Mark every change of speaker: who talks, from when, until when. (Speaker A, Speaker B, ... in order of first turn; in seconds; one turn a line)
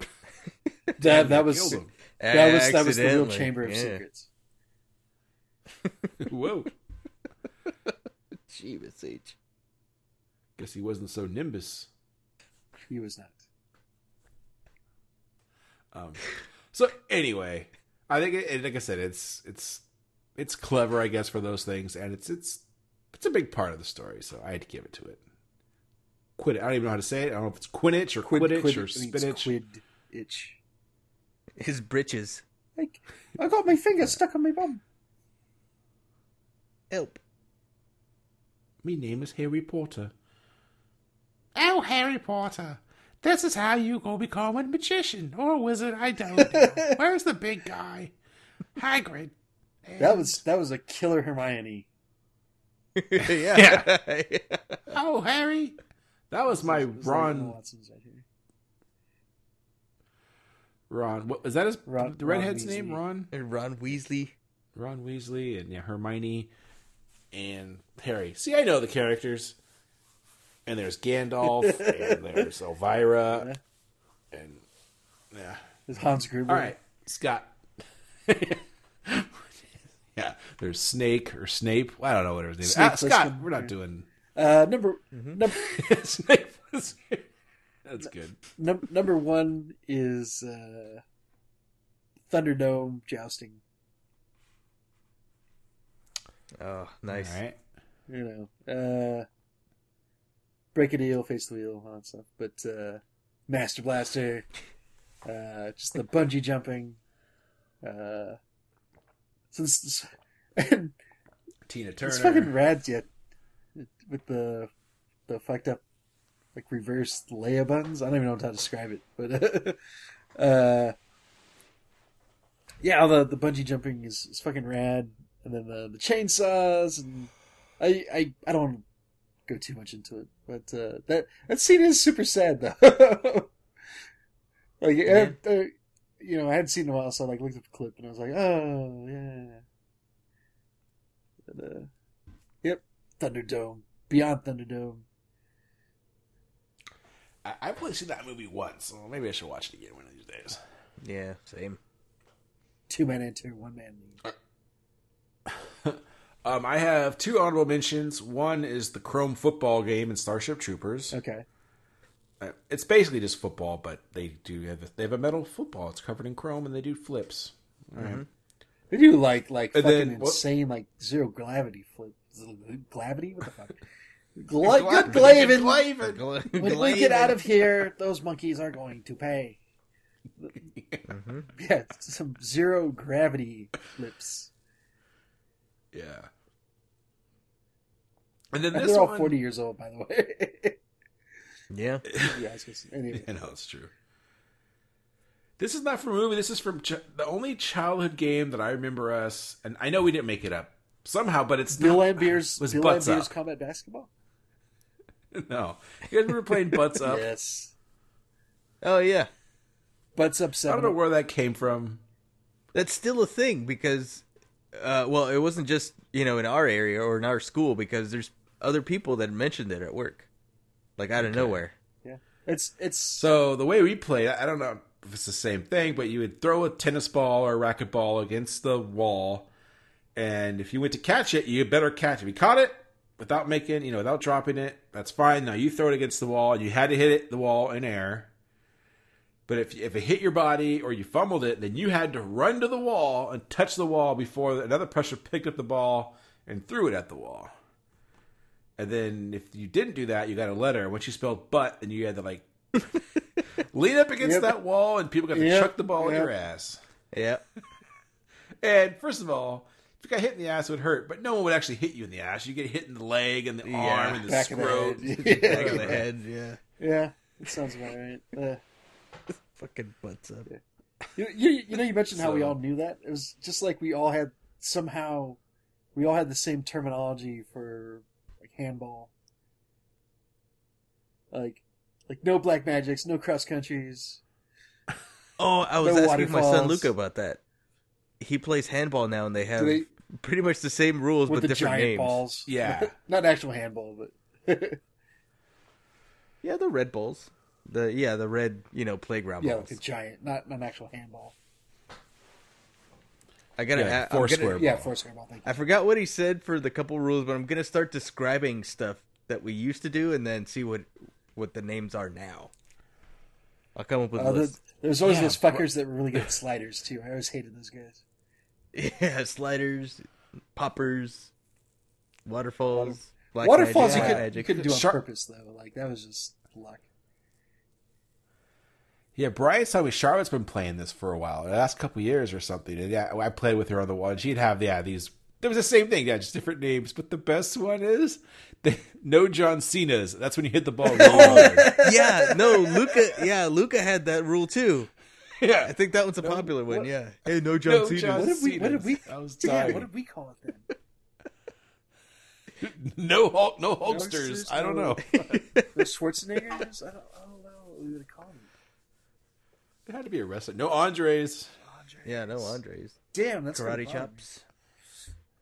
Speaker A: 1.0-4.3
Speaker B: 1.0-1.9
Speaker C: 2.2-4.0
Speaker C: 5.8-6.2
Speaker B: 6.2-6.7
Speaker C: 8.5-9.4
Speaker B: 10.6-11.9
Speaker A: 12.9-13.4
Speaker B: 15.9-19.8
Speaker B: 20.4-25.2
Speaker B: 26.4-29.5
Speaker A: 28.2-30.6
Speaker C: 31.6-32.4
Speaker A: 32.8-34.8
Speaker C: 36.9-37.2
Speaker B: 38.8-40.1
Speaker B: 41.5-48.1
Speaker A: 46.4-47.0
Speaker B: 48.8-49.3
Speaker B: 49.9-50.4
Speaker A: 50.0-51.9
Speaker C: 53.0-55.0
Speaker B: 53.2-53.9
Speaker B: 54.9-55.8
Speaker B: 56.3-57.5
Speaker A: 56.5-58.2
Speaker B: 60.9-63.3
Speaker A: 61.9-63.0
Speaker C: 63.3-64.3
Speaker B: 64.8-66.5
Speaker B: 67.3-69.6
Speaker B: 70.7-73.5
Speaker A: 71.7-72.4
Speaker A: 73.3-73.6
Speaker B: 74.3-74.6
Speaker B: 75.3-75.6
Speaker A: 75.9-76.8
Speaker B: 76.5-77.5
Speaker B: 78.3-79.5
Speaker B: 80.2-84.1
Speaker A: 82.6-83.7
Speaker A: 84.3-85.9
Speaker B: 85.5-87.2
Speaker B: 87.9-88.4
Speaker A: 88.0-91.0
Speaker A: 92.3-93.6
Speaker C: 96.6-97.4
Speaker B: 97.1-97.6
Speaker A: 98.1-99.3
Speaker A: 100.7-104.5
Speaker A: 105.2-107.0
Speaker A: 107.8-108.4
Speaker A: 109.5-111.0
Speaker B: 111.7-112.5
Speaker A: 112.0-113.1
Speaker A: 113.8-114.7
Speaker A: 115.3-115.8
Speaker A: 116.5-119.8
Speaker A: 120.4-121.0
Speaker A: 122.8-128.8
Speaker A: 129.5-133.5
Speaker A: 134.8-139.6
Speaker C: 135.1-135.3
Speaker A: 141.5-141.9
Speaker A: 142.6-145.1
Speaker B: 147.4-150.6
Speaker C: 151.0-151.8
Speaker A: 152.9-154.2
Speaker B: 155.5-161.2
Speaker A: 161.1-161.4
Speaker B: 162.4-168.2
Speaker C: 168.0-168.3
Speaker A: 168.9-173.8
Speaker B: 169.7-170.4
Speaker A: 174.4-175.9
Speaker B: 174.6-176.2
Speaker C: 175.1-177.8
Speaker A: 176.5-179.6
Speaker B: 180.7-181.1
Speaker C: 181.1-181.5
Speaker A: 181.5-184.5
Speaker B: 185.9-186.3
Speaker B: 188.5-189.4
Speaker A: 188.7-190.8
Speaker C: 191.7-192.0
Speaker B: 192.1-192.4
Speaker A: 192.2-193.3
Speaker B: 193.1-193.9
Speaker B: 195.6-203.3
Speaker A: 201.7-204.1
Speaker B: 205.3-207.2
Speaker A: 207.0-207.7
Speaker C: 208.8-209.3
Speaker A: 210.2-211.0
Speaker B: 210.7-212.0
Speaker C: 212.7-214.2
Speaker C: 214.7-220.3
Speaker C: 221.0-221.7
Speaker B: 221.2-221.6
Speaker A: 222.0-223.3
Speaker B: 223.2-229.5
Speaker B: 230.2-238.3
Speaker B: 239.5-247.5
Speaker B: 248.8-252.4
Speaker B: 253.7-256.8
Speaker A: 254.2-254.5
Speaker A: 255.3-256.3
Speaker C: 257.1-257.4
Speaker B: 258.6-266.0
Speaker C: 263.6-264.2
Speaker A: 264.2-266.1
Speaker C: 265.2-266.6
Speaker A: 266.8-268.6
Speaker C: 269.5-270.5
Speaker A: 271.2-275.4
Speaker C: 272.2-272.6
Speaker A: 275.9-279.1
Speaker A: 281.3-284.2
Speaker C: 285.4-287.4
Speaker A: 285.8-286.9
Speaker C: 288.2-292.2
Speaker A: 289.6-289.9
Speaker A: 291.3-294.8
Speaker B: 292.5-292.9
Speaker C: 296.4-299.8
Speaker A: 299.4-301.4
Speaker C: 303.6-304.7
Speaker B: 303.7-304.9
Speaker A: 304.6-305.5
Speaker C: 305.4-312.5
Speaker C: 313.8-314.6
Speaker A: 314.2-318.0
Speaker B: 315.0-315.7
Speaker C: 318.7-320.0
Speaker C: 320.6-321.3
Speaker C: 322.3-324.4
Speaker A: 322.7-326.9
Speaker B: 323.8-325.0
Speaker B: 329.1-341.8
Speaker A: 340.9-342.7
Speaker C: 340.9-344.9
Speaker B: 345.4-345.7
Speaker C: 345.6-348.4
Speaker A: 346.2-346.9
Speaker B: 347.6-349.9
Speaker A: 348.1-350.7
Speaker B: 352.6-355.1
Speaker A: 353.9-358.5
Speaker C: 355.1-355.9
Speaker B: 359.9-361.5
Speaker A: 361.7-362.6
Speaker C: 362.0-363.0
Speaker A: 363.1-364.2
Speaker C: 363.5-364.4